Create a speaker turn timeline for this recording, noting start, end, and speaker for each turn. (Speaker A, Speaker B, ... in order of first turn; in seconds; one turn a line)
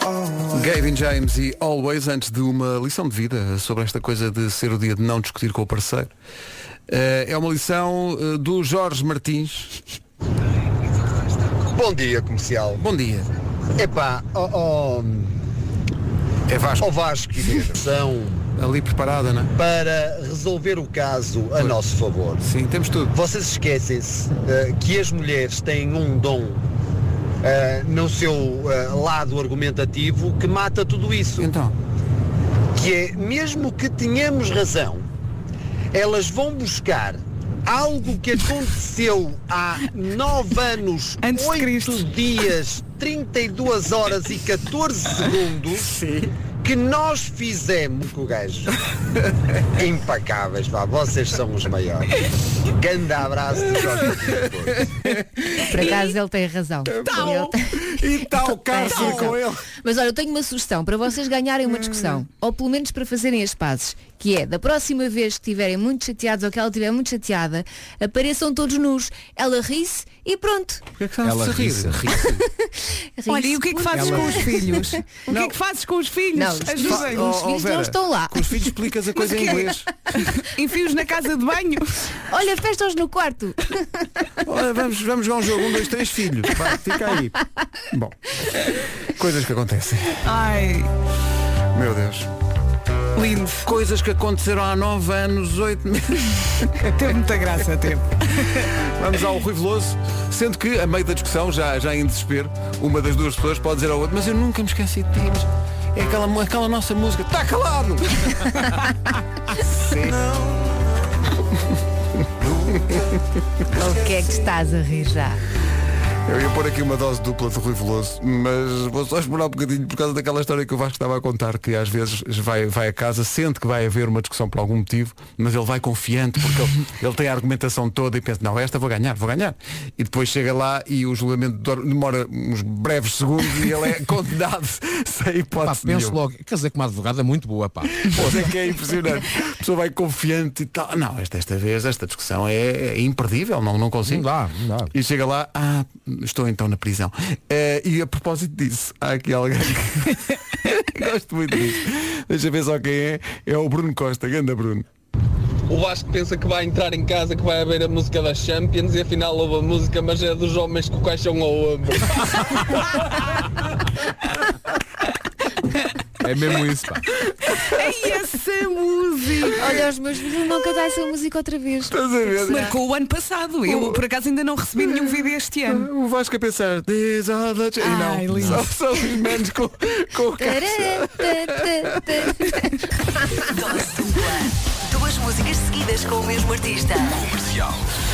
Speaker A: 0.5-6.1
Speaker A: 6.9-9.8
Speaker B: 11.7-12.8
Speaker A: 12.8-13.3
Speaker B: 13.8-15.3
Speaker A: 16.5-17.8
Speaker B: 16.8-18.4
Speaker A: 18.6-19.5
Speaker B: 19.6-22.4
Speaker A: 22.4-23.1
Speaker B: 23.1-26.6
Speaker B: 27.4-31.5
Speaker A: 31.4-31.7
Speaker B: 32.7-35.0
Speaker B: 35.9-45.9
Speaker C: 41.2-42.1
Speaker A: 46.0-46.3
Speaker B: 46.6-48.7
Speaker B: 49.8-54.9
Speaker D: 55.6-70.8
Speaker A: 56.9-59.6
Speaker A: 71.0-72.4
Speaker E: 71.2-72.2
Speaker D: 72.3-74.8
Speaker C: 73.3-77.3
Speaker E: 73.9-74.5
Speaker A: 75.3-75.5
Speaker D: 76.3-78.7
Speaker A: 76.8-79.9
Speaker C: 79.2-82.1
Speaker D: 82.3-84.3
Speaker A: 84.5-87.4
Speaker A: 87.9-90.2
Speaker C: 90.2-90.9
Speaker A: 91.7-92.3
Speaker C: 93.2-93.7
Speaker A: 93.7-96.9
Speaker C: 96.8-98.7
Speaker A: 98.8-108.7
Speaker A: 109.7-110.3
Speaker A: 112.4-113.2
Speaker D: 113.7-115.4
Speaker A: 116.3-136.2
Speaker E: 135.6-138.5
Speaker A: 138.1-144.3
Speaker E: 144.1-144.9
Speaker A: 144.9-154.9
Speaker F: 155.7-162.9
Speaker E: 166.2-167.0
Speaker C: 167.5-169.7
Speaker D: 169.5-172.7
Speaker A: 171.9-172.7
Speaker C: 172.4-175.9
Speaker A: 173.7-174.0
Speaker A: 174.8-175.1
Speaker A: 175.7-182.3
Speaker C: 177.8-178.7
Speaker E: 178.3-178.6
Speaker D: 180.4-182.7
Speaker G: 183.4-187.8